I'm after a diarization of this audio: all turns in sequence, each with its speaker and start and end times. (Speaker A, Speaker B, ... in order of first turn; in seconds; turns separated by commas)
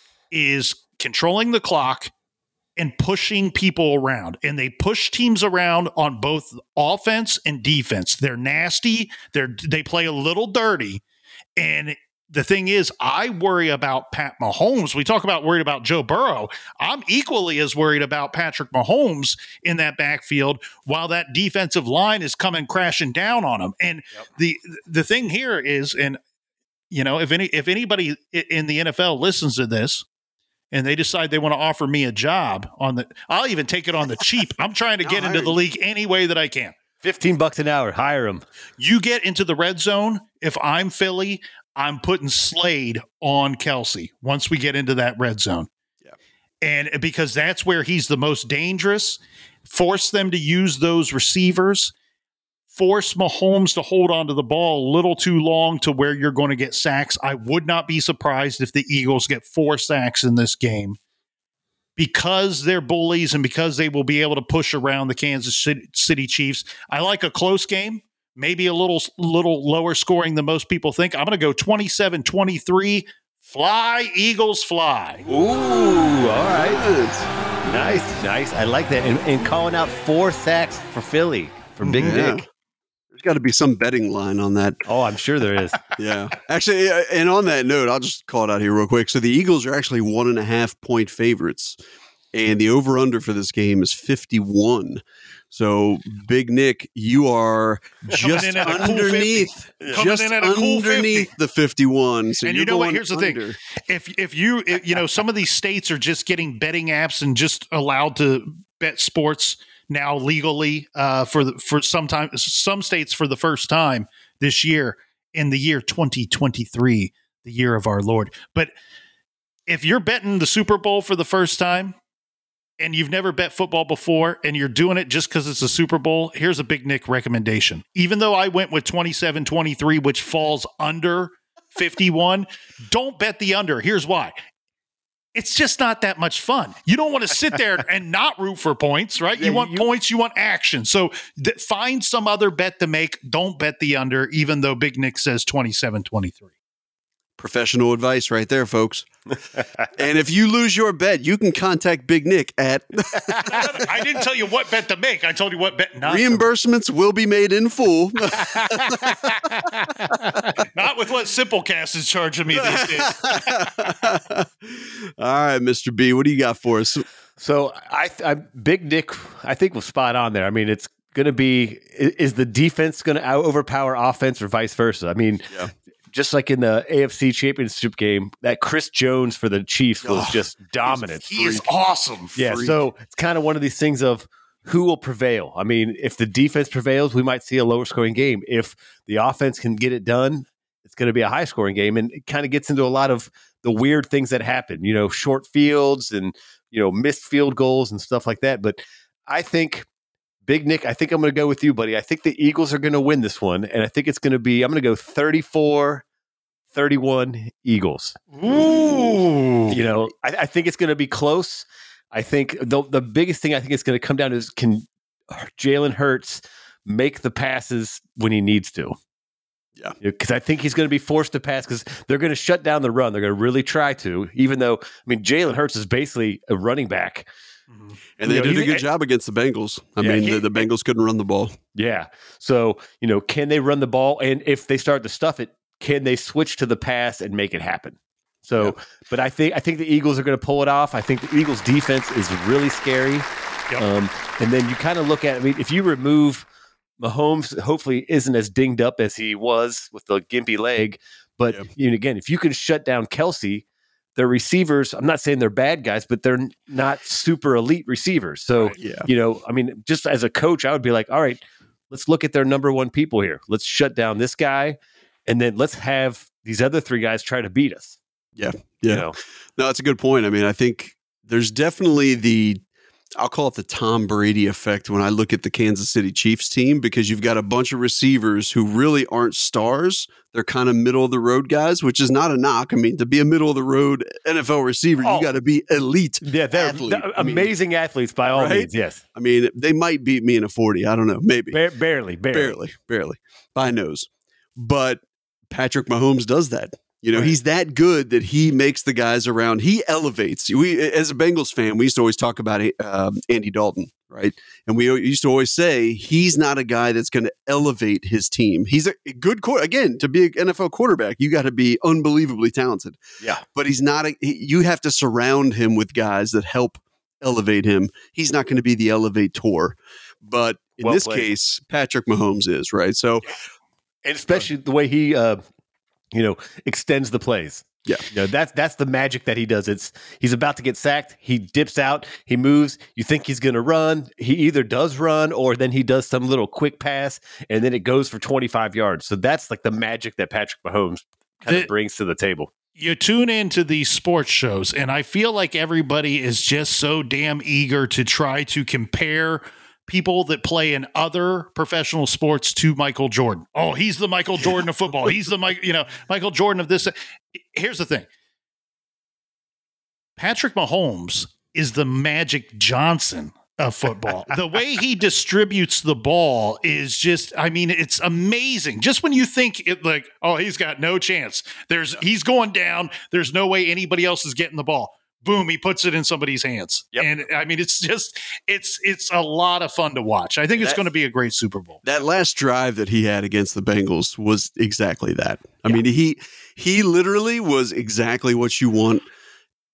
Speaker A: 0.3-2.1, Speaker A: 2.8-11.0, Speaker A: 11.6-26.2, Speaker A: 26.9-30.0, Speaker A: 30.7-36.7, Speaker B: 35.0-35.5, Speaker C: 37.0-38.4, Speaker A: 38.8-45.7, Speaker A: 46.6-51.9, Speaker A: 52.7-61.0, Speaker A: 62.0-75.2, Speaker C: 75.3-76.8, Speaker B: 76.5-77.3, Speaker C: 77.6-82.4, Speaker A: 81.8-82.2, Speaker B: 82.0-82.4, Speaker B: 83.1-84.8, Speaker C: 84.8-85.8, Speaker B: 86.0-91.8, Speaker B: 92.3-103.6, Speaker A: 98.1-101.3, Speaker A: 102.4-118.7, Speaker A: 119.7-121.9, Speaker A: 122.8-134.3, Speaker A: 135.3-146.5, Speaker C: 139.4-139.9, Speaker B: 147.4-149.1, Speaker B: 149.9-153.9, Speaker A: 153.4-156.4, Speaker B: 156.0-159.2, Speaker A: 158.5-159.5, Speaker A: 160.5-163.7, Speaker B: 162.5-167.1, Speaker C: 167.4-175.5, Speaker C: 176.1-181.2, Speaker B: 180.0-180.4, Speaker A: 181.2-182.3, Speaker B: 181.3-181.6, Speaker B: 182.3-182.8, Speaker C: 182.3-199.8, Speaker C: 200.4-206.0, Speaker C: 206.7-208.2, Speaker A: 208.3-209.8, Speaker C: 209.7-219.0, Speaker C: 220.0-227.3, Speaker A: 227.7-228.0, Speaker B: 228.2-231.5, Speaker C: 228.2-228.8, Speaker C: 230.0-230.6, Speaker C: 231.7-243.2, Speaker C: 243.8-246.4, Speaker C: 247.0-253.6, Speaker C: 254.2-268.0, Speaker B: 258.8-259.1, Speaker B: 268.4-272.6, Speaker C: 268.9-269.1, Speaker B: 273.2-287.5, Speaker C: 285.0-285.3, Speaker C: 286.2-289.0, Speaker B: 288.3-291.6, Speaker C: 291.5-292.6, Speaker B: 292.3-323.2, Speaker C: 320.8-321.3, Speaker C: 324.0-325.4, Speaker C: 326.1-342.5, Speaker A: 342.8-358.1, Speaker A: 360.2-381.8, Speaker B: 381.8-389.0